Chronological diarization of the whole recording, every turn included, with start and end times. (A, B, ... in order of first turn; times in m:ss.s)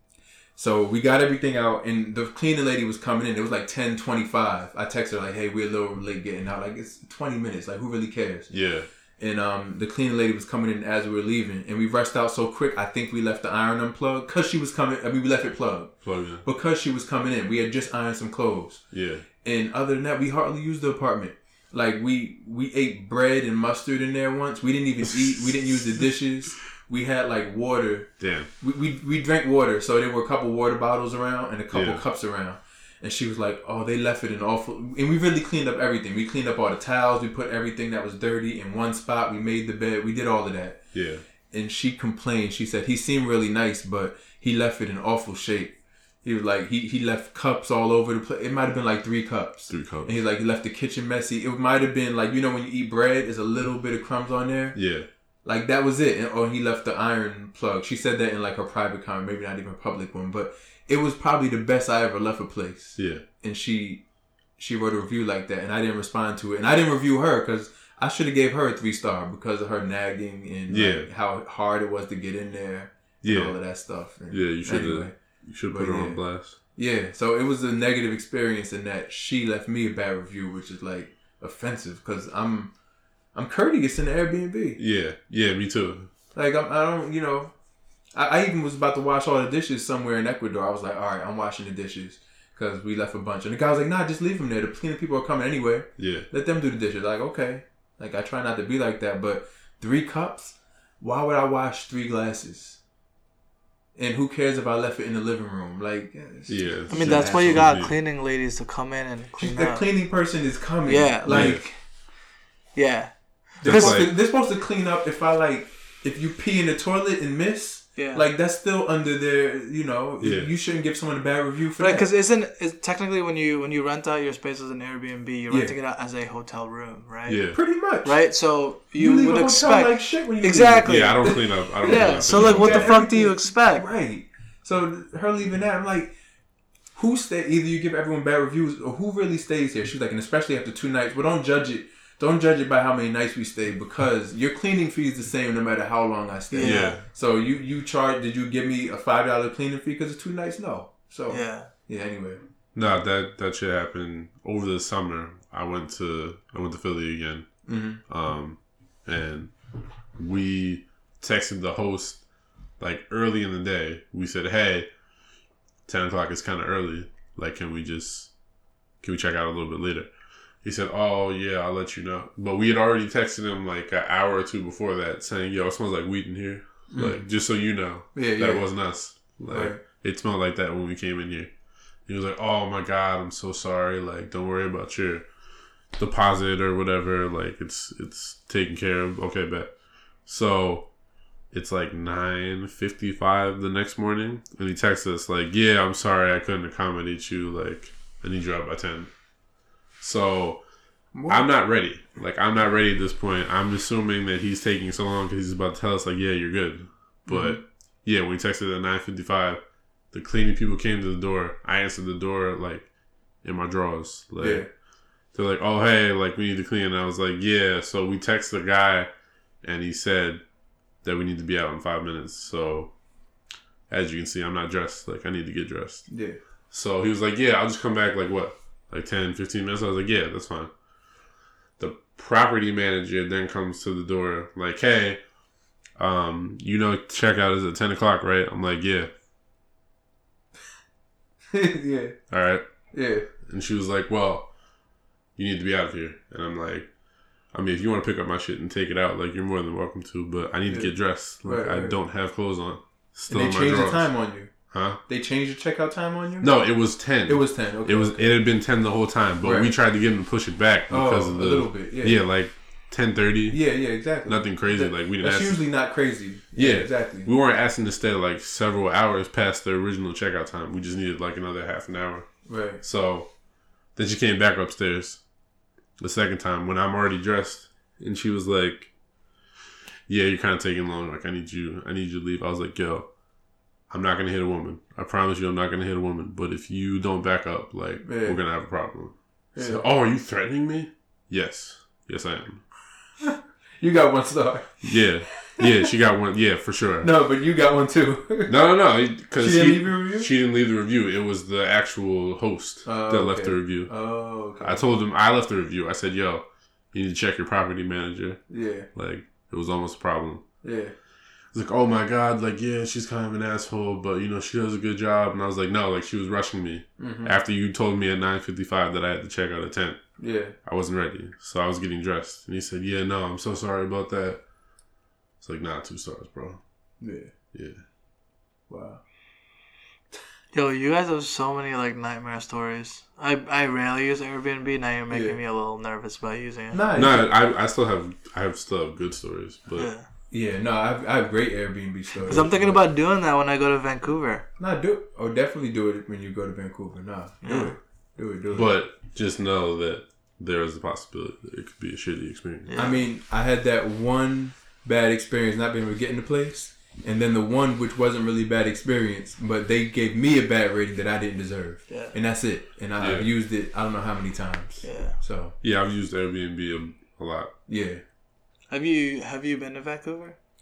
0:00.6-0:08.5 A
0:08.5-0:08.9 B
0:09.2-0:18.8 A
0:16.0-0:16.4 B
0:18.9-0:19.2 B
0:19.4-0:40.8 A
0:28.2-0:28.5 B
0:31.7-0:32.0 B
0:40.9-0:41.2 B
0:41.5-0:54.8 A
0:49.7-0:50.2 B
0:54.7-0:55.1 B
0:55.4-1:04.0 A
1:03.0-1:03.2 B
1:04.6-1:15.2 A
1:10.7-1:11.1 B
1:13.2-1:13.6 B
1:14.3-1:16.6 B
1:15.7-1:22.7 A
1:23.3-1:24.8 A
1:24.8-1:26.1 B
1:26.3-1:27.5 A
1:28.1-1:42.8 A
1:36.0-1:36.3 B
1:44.0-1:47.7 A
1:46.5-1:47.9 B
1:46.9-1:49.9 C
1:49.4-1:51.7 A
1:50.9-1:51.7 C
1:51.3-1:51.6 B
1:52.7-1:54.1 C
1:53.6-2:02.1 A
1:53.6-1:54.1 B
1:58.0-1:58.2 C
2:00.2-2:00.5 B
2:01.8-2:07.4 C
2:05.5-2:05.7 A
2:07.3-2:07.6 B
2:07.5-2:08.2 A
2:08.0-2:13.9 C
2:08.9-2:16.1 A
2:10.8-2:13.0 B
2:16.9-2:32.4 A
2:26.5-2:27.0 C
2:26.6-2:27.0 B
2:31.3-2:31.7 C
2:32.7-2:39.5 B
2:37.6-2:38.0 A
2:40.2-2:42.2 B
2:42.8-2:44.9 B
2:45.8-2:48.3 B
2:49.0-2:50.1 B
2:50.6-3:01.5 B
2:56.9-2:57.2 A
2:58.1-2:58.7 A
2:59.5-2:59.8 A
3:02.0-3:05.2 B
3:06.0-3:09.7 B
3:10.2-3:10.9 B
3:11.5-3:19.1 B
3:20.0-3:20.6 B
3:21.1-3:21.5 A
3:21.3-3:29.6 B
3:27.2-3:27.6 A
3:30.1-3:32.9 B
3:33.4-3:34.7 B
3:34.4-3:34.7 A
3:35.3-3:39.1 B
3:39.6-3:40.4 B
3:41.0-3:42.9 B
3:43.9-3:46.1 B
3:46.1-3:46.4 A
3:46.7-3:50.7 B
3:51.8-3:55.2 B
3:56.0-3:59.1 B
4:01.5-4:02.2 A
4:02.3-4:02.6 B
4:02.9-4:03.3 A
4:03.4-4:04.5 B
4:05.4-4:06.9 B
4:07.5-4:14.1 B
4:10.7-4:12.0 A
4:13.3-4:14.5 A
4:14.7-4:15.0 B
4:15.0-4:16.6 A
4:16.4-4:23.6 B
4:17.2-4:18.3 A
4:19.4-4:19.7 A
4:20.9-4:22.2 A
4:23.5-4:27.3 A
4:24.2-4:25.6 B
4:26.6-4:33.3 B
4:32.5-4:32.8 A
4:33.9-4:35.2 B
4:36.0-4:38.9 B
4:40.1-4:43.1 B
4:43.9-4:52.6 B
4:48.0-4:48.4 A
4:49.5-4:49.8 A
4:53.2-4:55.7 A
4:54.8-4:57.1 B
4:57.0-4:58.5 A
4:58.5-5:03.9 B
4:59.4-5:00.3 A
5:02.8-5:04.8 A
5:04.6-5:10.4 B
5:08.5-5:08.9 A
5:10.6-5:10.9 A
5:11.5-5:20.1 B
5:17.0-5:17.3 A
5:20.2-5:20.6 A
5:20.6-5:24.4 B
5:25.4-5:26.6 B
5:27.0-5:27.3 A
5:27.5-5:27.8 B
5:28.7-5:29.0 A
5:30.5-5:36.8 C
5:35.1-5:35.4 A
5:36.7-5:37.3 A
5:36.9-5:39.9 B
5:39.8-5:40.0 C
5:40.3-5:42.8 A
5:42.2-5:44.5 C
5:44.6-5:48.7 A
5:47.4-5:47.8 C
5:48.5-5:52.8 B
5:52.7-5:53.0 C
5:52.8-6:05.5 A
6:01.9-6:02.1 C
6:03.0-6:03.3 B
6:04.8-6:05.2 C
6:05.6-6:07.5 B
6:07.7-6:08.0 A
6:08.7-6:10.4 C